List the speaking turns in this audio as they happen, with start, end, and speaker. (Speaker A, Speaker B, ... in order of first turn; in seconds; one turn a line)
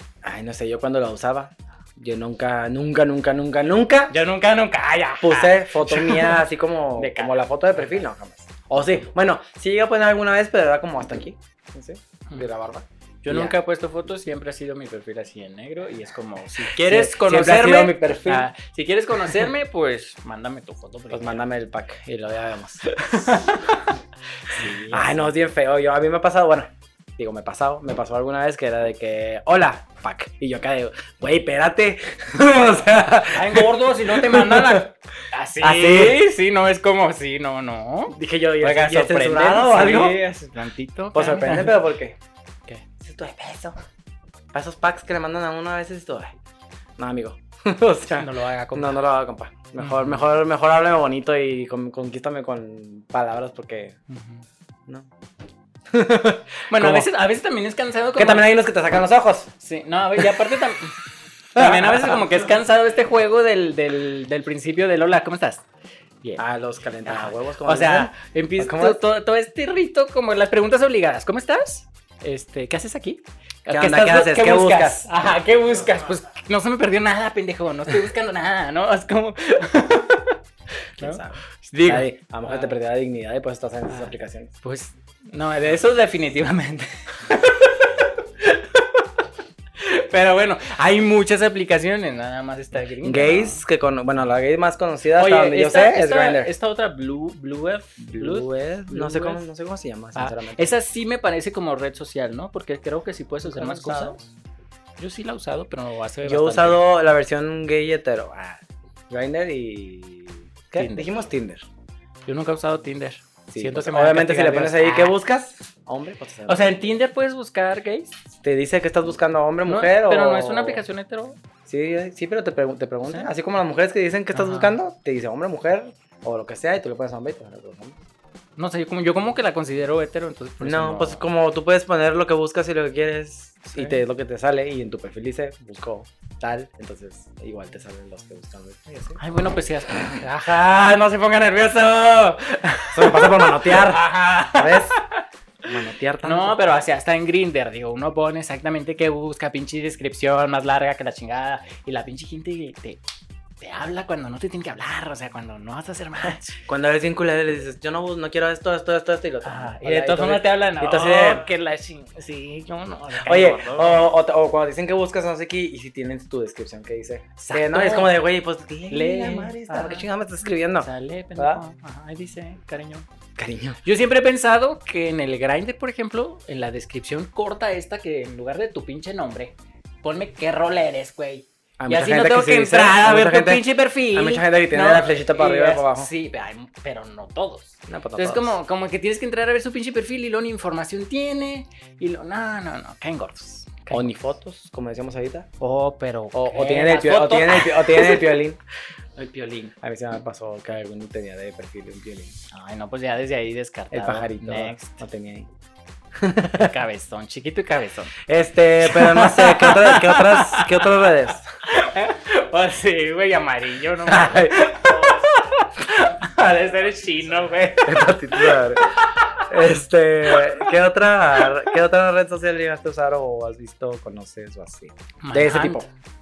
Speaker A: 0.2-4.2
Speaker B: 4.1-6.4
Speaker A: 5.2-13.6
Speaker B: 6.9-8.1
Speaker B: 8.8-9.0
Speaker B: 13.2-21.4
Speaker A: 16.7-18.5
Speaker A: 21.1-23.5
Speaker B: 22.8-25.3
Speaker A: 24.6-34.9
Speaker B: 33.3-41.8
Speaker A: 35.6-36.2
Speaker A: 38.1-40.3
Speaker A: 41.1-42.2
Speaker A: 43.0-43.8
Speaker A: 44.5-46.3
Speaker A: 47.0-54.0
Speaker B: 48.2-49.0
Speaker B: 49.8-50.2
Speaker B: 54.1-54.4
Speaker A: 55.9-57.1
Speaker B: 56.7-58.5
Speaker A: 58.2-59.5
Speaker B: 59.6-61.0
Speaker A: 60.2-60.5
Speaker A: 61.5-62.2
Speaker B: 61.5-65.7
Speaker A: 66.4-69.0
Speaker B: 67.0-80.4
Speaker A: 73.7-75.1
Speaker A: 81.0-84.5
Speaker B: 81.0-82.8
Speaker B: 83.9-93.6
Speaker A: 93.0-96.5
Speaker B: 95.2-99.5
Speaker A: 98.0-100.7
Speaker B: 100.2-104.3
Speaker A: 103.4-104.2
Speaker B: 105.0-106.8
Speaker A: 106.2-111.7
Speaker B: 110.7-111.1
Speaker B: 112.3-115.2
Speaker A: 113.5-117.0
Speaker B: 116.5-118.2
Speaker A: 118.4-120.8
Speaker B: 119.7-121.4
Speaker A: 121.7-128.0
Speaker B: 123.0-123.3
Speaker B: 124.3-124.8
Speaker B: 128.6-131.3
Speaker A: 130.6-139.2
Speaker B: 133.8-134.0
Speaker B: 139.2-145.2
Speaker A: 142.9-145.0
Speaker A: 145.7-146.6
Speaker B: 146.2-153.0
Speaker B: 153.6-156.6
Speaker A: 156.7-161.5
Speaker B: 159.4-164.2
Speaker A: 163.2-171.6
Speaker B: 167.4-168.2
Speaker B: 168.9-170.1
Speaker B: 170.8-173.1
Speaker A: 173.4-173.8
Speaker B: 173.8-194.1
Speaker A: 181.8-186.1
Speaker A: 187.9-188.6
Speaker A: 193.9-195.5
Speaker B: 195.6-198.4
Speaker A: 196.3-198.6
Speaker B: 199.2-199.7
Speaker A: 199.8-202.3
Speaker B: 202.5-205.0
Speaker A: 203.9-205.5
Speaker A: 206.2-206.7
Speaker B: 206.5-208.2
Speaker A: 208.3-211.5
Speaker B: 208.8-219.5
Speaker A: 214.1-214.7
Speaker A: 217.8-225.9
Speaker B: 220.3-220.7
Speaker B: 225.2-225.9